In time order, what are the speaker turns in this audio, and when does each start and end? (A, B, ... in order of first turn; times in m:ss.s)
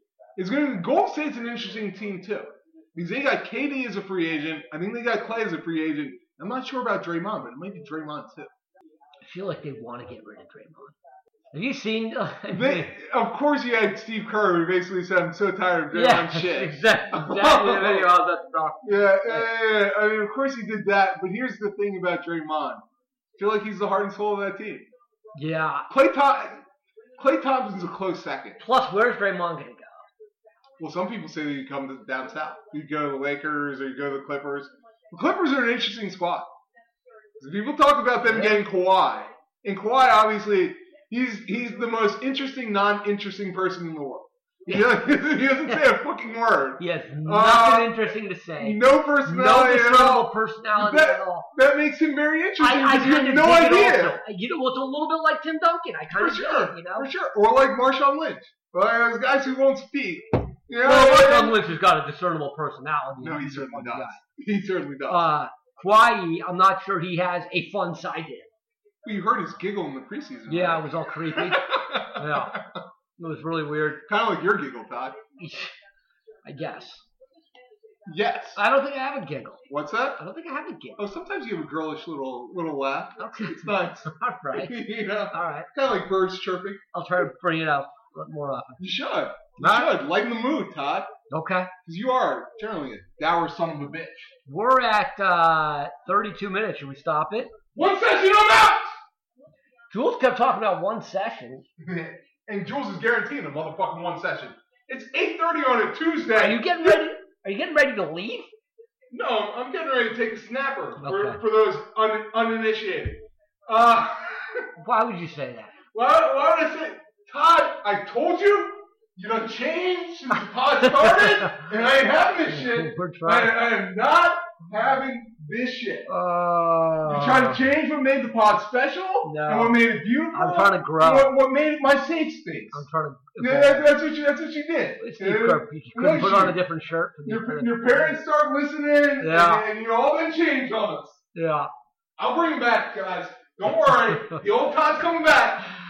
0:00.4-0:08.5 A
0:09.2-0:11.0 B
0:11.5-0:12.9 B
0:12.5-0:18.1 A
0:15.9-0:19.5 B
0:18.8-0:22.8 A
0:23.4-0:24.9 A
0:25.4-0:25.9 B
0:25.9-0:26.6 A
0:27.2-0:28.6 A
0:28.6-0:30.0 B
0:30.8-0:36.5 A
0:37.4-0:48.0 A
0:38.3-0:38.6 B
0:46.8-0:51.5 B
0:48.6-0:54.2 A
0:52.6-0:57.1 B
0:56.1-1:01.7 A
1:00.8-1:04.2 B
1:03.2-1:05.3 A
1:05.1-1:08.5 B
1:09.0-1:12.7 A
1:10.5-1:12.6 B
1:13.2-1:14.0 B
1:14.1-1:15.2 A
1:15.4-1:15.7 B
1:16.4-1:17.0 B
1:18.1-1:18.6 A
1:18.6-1:19.6 B
1:19.7-1:20.2 A
1:20.2-1:21.0 B
1:21.0-1:26.8 A
1:23.2-1:24.8 B
1:25.3-1:25.7 B
1:26.9-1:28.8 B
1:28.8-1:31.1 A
1:29.6-1:29.9 B
1:31.3-1:31.7 B
1:31.9-1:34.3 A
1:34.5-1:37.5 B
1:37.7-1:38.9 A
1:39.9-1:41.7 B
1:41.8-1:47.0 A
1:46.3-1:48.5 B
1:49.1-1:54.7 A
1:51.0-1:51.4 B
1:54.8-1:55.7 B
1:55.9-2:06.1 A
2:00.8-2:01.7 B
2:02.5-2:03.6 B
2:06.1-2:07.6 B
2:07.0-2:12.8 A
2:09.2-2:09.8 B
2:10.3-2:11.3 B
2:12.7-2:13.9 B
2:13.4-2:16.6 A
2:15.0-2:18.1 B
2:17.2-2:21.2 A
2:19.2-2:19.6 B
2:21.4-2:21.7 B
2:22.2-2:25.8 A